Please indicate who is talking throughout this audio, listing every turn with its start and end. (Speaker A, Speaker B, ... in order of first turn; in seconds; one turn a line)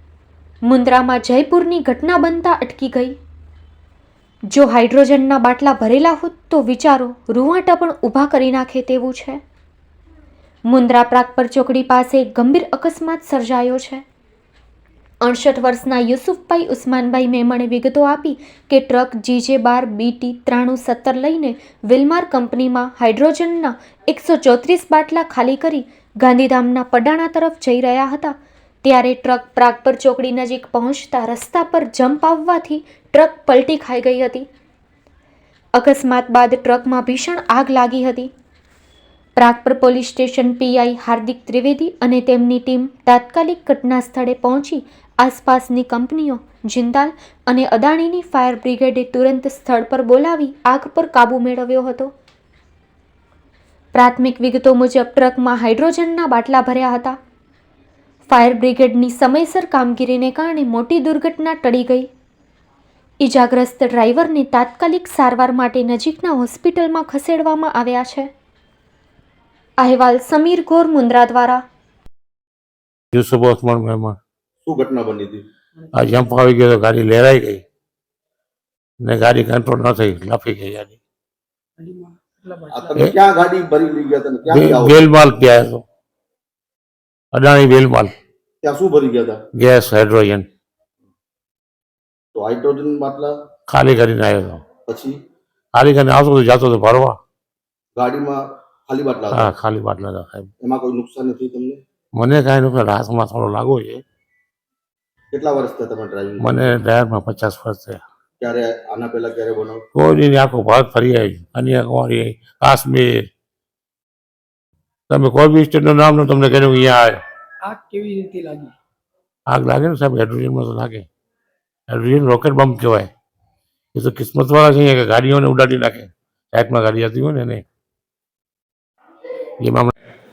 Speaker A: 0.6-3.2
Speaker A: 4.5-9.4
Speaker A: 10.7-14.0
Speaker A: 15.2-34.5
Speaker A: 35.7-38.3
Speaker A: 39.4-52.1
Speaker A: 53.9-57.2
Speaker A: 58.3-62.1
Speaker A: 63.2-68.3
Speaker A: 69.8-71.6
Speaker B: 73.1-74.2
Speaker C: 74.6-75.4
Speaker B: 75.9-77.6
Speaker B: 79.0-81.0
Speaker D: 81.8-83.0
Speaker C: 82.7-85.0
Speaker B: 84.5-85.8
Speaker B: 87.3-88.1
Speaker C: 88.6-89.4
Speaker B: 89.5-90.5
Speaker C: 92.3-93.3
Speaker B: 93.7-94.6
Speaker C: 94.9-95.2
Speaker B: 95.7-97.2
Speaker C: 97.9-99.5
Speaker B: 99.3-100.5
Speaker C: 100.6-101.8
Speaker B: 102.2-104.0
Speaker C: 105.3-106.8
Speaker B: 106.4-108.0
Speaker C: 108.4-109.8
Speaker B: 109.9-113.3
Speaker B: 115.1-117.2
Speaker D: 117.6-118.7
Speaker B: 119.5-121.1
Speaker B: 121.9-123.1
Speaker B: 123.9-127.6
Speaker B: 129.6-129.9